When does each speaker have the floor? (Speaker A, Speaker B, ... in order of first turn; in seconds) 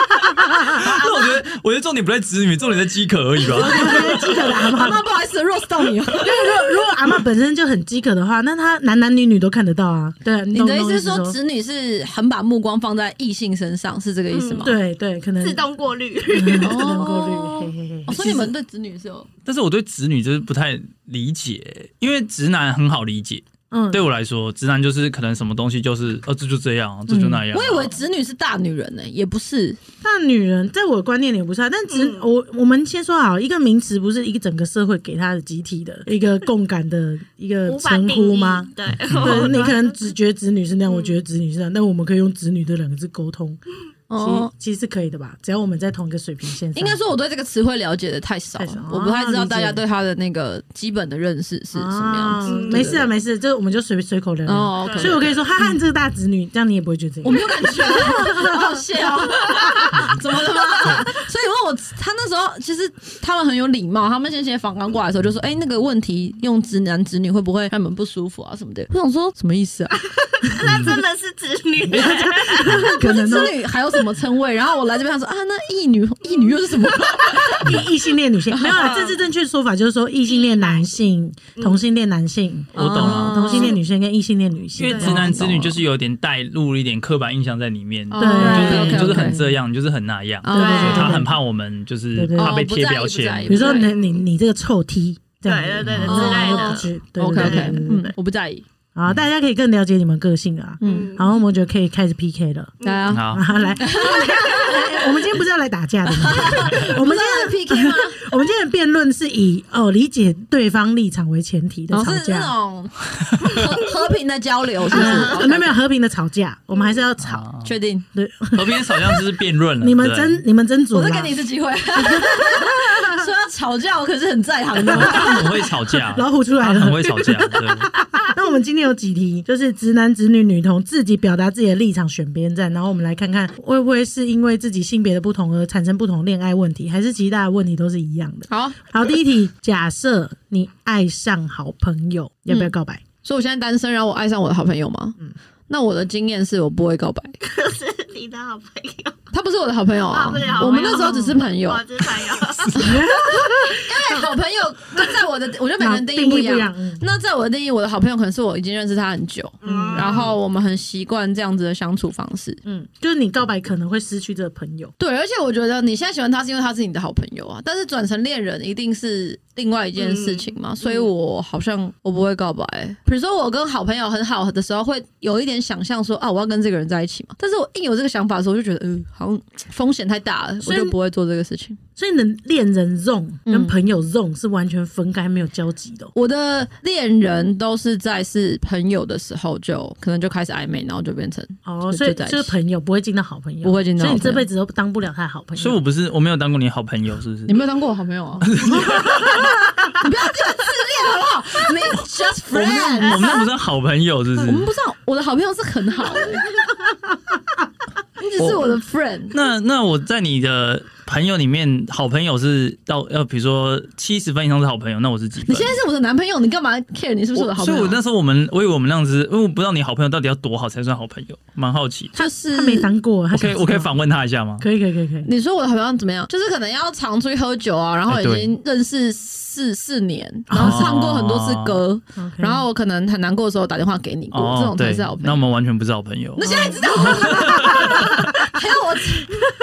Speaker A: 0.2-0.8, 3.5-5.0, 6.2-11.4, 14.6-15.7, 16.3-18.4, 23.7-24.0, 27.1-27.4, 30.0-43.6, 44.2-47.0, 48.6-49.8, 51.7-60.1, 71.9-73.6, 77.6-85.4, 88.2-89.6, 90.5-91.4, 92.2-92.6, 93.5-98.1, 99.0-102.8, 103.3-112.5, 114.9-117.5, 118.1-119.2, 119.8-121.3, 122.0-123.3, 124.8-143.0, 150.5-151.3, 152.8-153.8, 155.8-157.0, 159.6-160.3, 162.7-164.9, 180.6-180.9, 182.0-186.1, 191.7-195.8, 222.2-223.9, 224.6-225.3, 230.5-230.9, 232.2-232.6, 236.4-238.0
Speaker B: 0.5-4.7, 18.2-18.5, 19.5-27.9, 39.1-39.4, 70.6-71.0, 82.8-83.4, 84.8-93.7, 95.8-96.3, 103.1-103.5, 117.2-117.7, 118.5-120.4, 124.9-127.9, 195.6-197.6, 198.4-199.5, 202.5-204.7, 208.4-208.8, 209.3-215.7, 217.3-222.2, 223.3-224.7, 228.1-228.5, 230.5-231.8, 234.3-238.3
Speaker C: 0.7-1.4, 3.5-6.6, 10.5-14.8, 16.6-19.3, 27.5-29.8, 44.1-44.5, 46.8-53.1, 54.5-55.7, 57.2-70.0, 72.8-77.8, 78.5-78.9, 82.7-83.8, 85.0-85.8, 88.1-89.4, 90.4-91.2, 92.4-93.9, 96.0-98.7, 100.8-101.1, 102.8-105.0, 106.1-108.2, 111.9-115.8, 117.6-118.1, 120.9-125.5, 138.5-138.8, 142.5-142.7, 143.2-147.4, 149.3-151.8, 152.8-162.6, 165.0-181.8, 183.5-183.8, 186.1-192.5, 193.6-194.5, 197.5-198.5, 199.2-203.4, 204.4-206.5, 208.2-209.3, 215.5-218.0, 222.2-222.9, 225.2-235.4, 236.4-239.3
Speaker D: 14.3-14.8, 15.4-16.8, 31.9-32.3, 37.7-40.0, 40.9-41.2, 52.5-53.0, 54.8-55.4, 70.2-73.0, 76.2-77.5, 78.6-79.2, 80.3-81.0, 81.6-81.8, 83.5-83.8, 84.9-85.2, 88.3-88.9, 90.5-91.1, 93.6-94.2, 95.5-98.1, 100.8-101.4, 102.8-105.0, 114.9-115.3, 147.4-149.2, 150.1-153.5, 159.6-160.3, 170.0-170.5, 203.1-203.4